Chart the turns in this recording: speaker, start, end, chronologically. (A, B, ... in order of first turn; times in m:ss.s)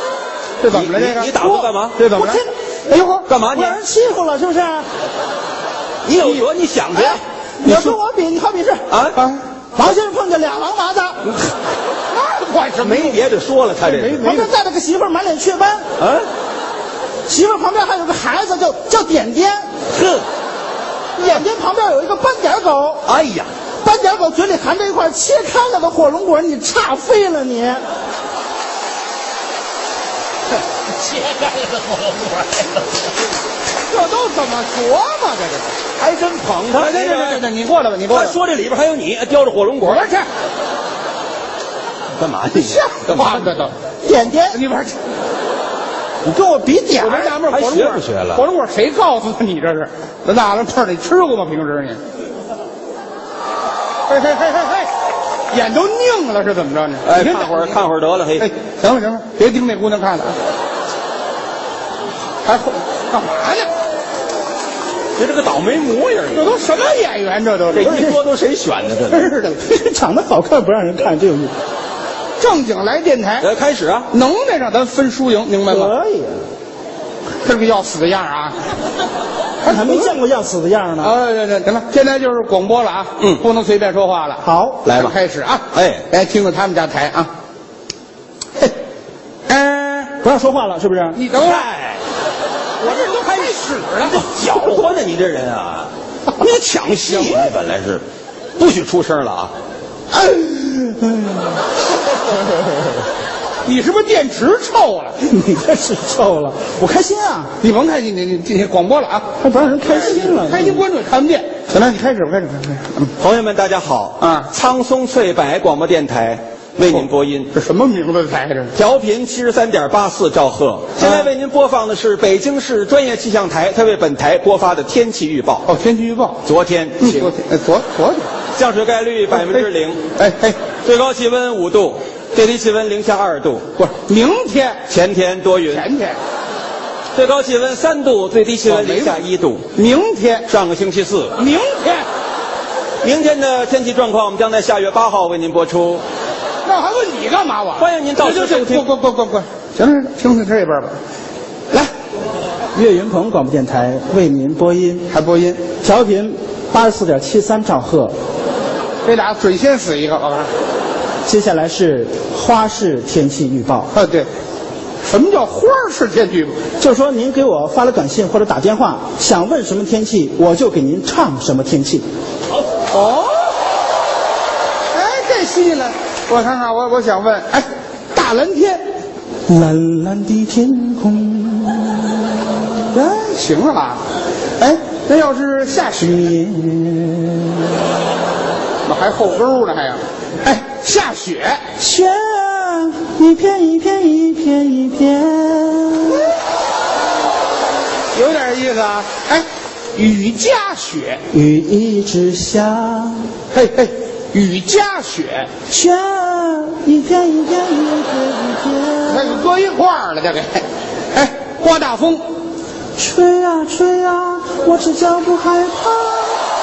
0:00.6-0:01.4 A
0:00.7-0:02.2 B
0:01.4-0:04.9 C
0:02.0-0:03.2 A
0:03.3-0:03.8 B
0:06.0-0:08.0 B
0:06.9-0:08.8 C
0:08.9-0:09.2 B
0:09.1-0:09.4 A
0:09.7-0:11.3 C
0:12.1-0:13.2 A
0:12.8-0:14.4 B
0:13.9-0:14.5 A
0:14.2-0:15.9 C
0:16.0-0:16.2 B
0:17.2-0:19.9 C
0:21.2-0:23.1 C
0:23.0-0:23.5 B
0:23.8-0:27.8 C
0:31.0-0:32.8 B
0:33.9-0:35.8 A
0:36.0-0:37.5 B
0:36.7-0:38.3 A
0:38.1-0:40.1 B
0:39.8-0:40.3 A
0:42.2-0:43.4 B
0:42.5-0:43.7 A
0:44.0-0:44.6 C
0:44.5-0:45.0 A
0:46.2-0:47.3 C
0:46.9-0:52.0 A
0:47.4-0:48.4 B
0:54.1-0:54.9 A
0:55.5-0:57.8 A
0:57.0-0:58.5 B
0:58.4-1:00.4 A
1:02.4-1:03.7 A
1:05.2-1:06.5 B
1:06.3-1:08.0 A
1:07.7-1:09.3 B
1:07.8-1:08.2 C
1:09.1-1:09.6 A
1:09.6-1:11.5 C
1:12.4-1:13.5 A
1:13.4-1:14.1 B
1:14.1-1:15.9 A
1:15.6-1:16.4 C
1:17.4-1:18.7 A
1:19.6-1:20.2 A
1:19.6-1:21.2 C
1:21.0-1:24.4 A
1:24.4-1:24.9 C
1:24.8-1:25.2 B
1:24.9-1:27.3 A
1:25.7-1:26.1 B
1:29.5-1:30.1 A
1:30.2-1:31.2 C
1:31.1-1:31.7 A
1:31.3-1:32.0 B
1:32.8-1:34.2 A
1:32.8-1:38.0 B
1:38.6-1:39.5 B
1:40.1-1:41.6 C
1:43.6-1:45.2 A
1:45.2-1:47.5 C
1:47.6-1:49.3 A
1:49.4-1:50.8 C
1:50.1-1:53.1 A
1:53.2-1:57.5 B
1:54.2-1:54.5 A
1:56.9-1:58.7 A
1:58.7-2:05.7 B
2:01.0-2:01.3 A
2:05.6-2:06.4 A
2:06.4-2:07.3 B
2:07.0-2:08.3 A
2:08.5-2:10.0 B
2:09.3-2:10.6 A
2:10.8-2:13.7 B
2:13.8-2:14.8 A
2:14.9-2:15.9 B
2:15.7-2:16.2 A
2:17.1-2:19.7 B
2:18.6-2:19.2 A
2:19.7-2:20.5 A
2:20.5-2:21.4 B
2:21.4-2:22.1 A
2:23.0-2:26.0 B
2:26.6-2:31.0 A
2:27.8-2:28.9 B
2:32.7-2:35.1 C
2:35.1-2:35.6 A
2:35.8-2:38.1 C
2:39.0-2:40.5 A
2:41.2-2:43.9 C
2:43.9-2:44.3 A
2:45.0-2:46.6 A
2:46.8-2:52.0 C
2:52.9-2:53.5 A
2:54.9-2:58.8 A
2:59.5-3:02.9 C
3:02.9-3:04.0 A
3:04.6-3:06.2 A
3:06.0-3:07.8 C
3:08.8-3:11.6 A
3:11.8-3:16.3 C
3:18.1-3:21.2 A
3:21.3-3:23.3 C
3:23.5-3:25.5 A
3:25.7-3:29.4 C
3:29.1-3:32.2 A
3:33.0-3:36.4 C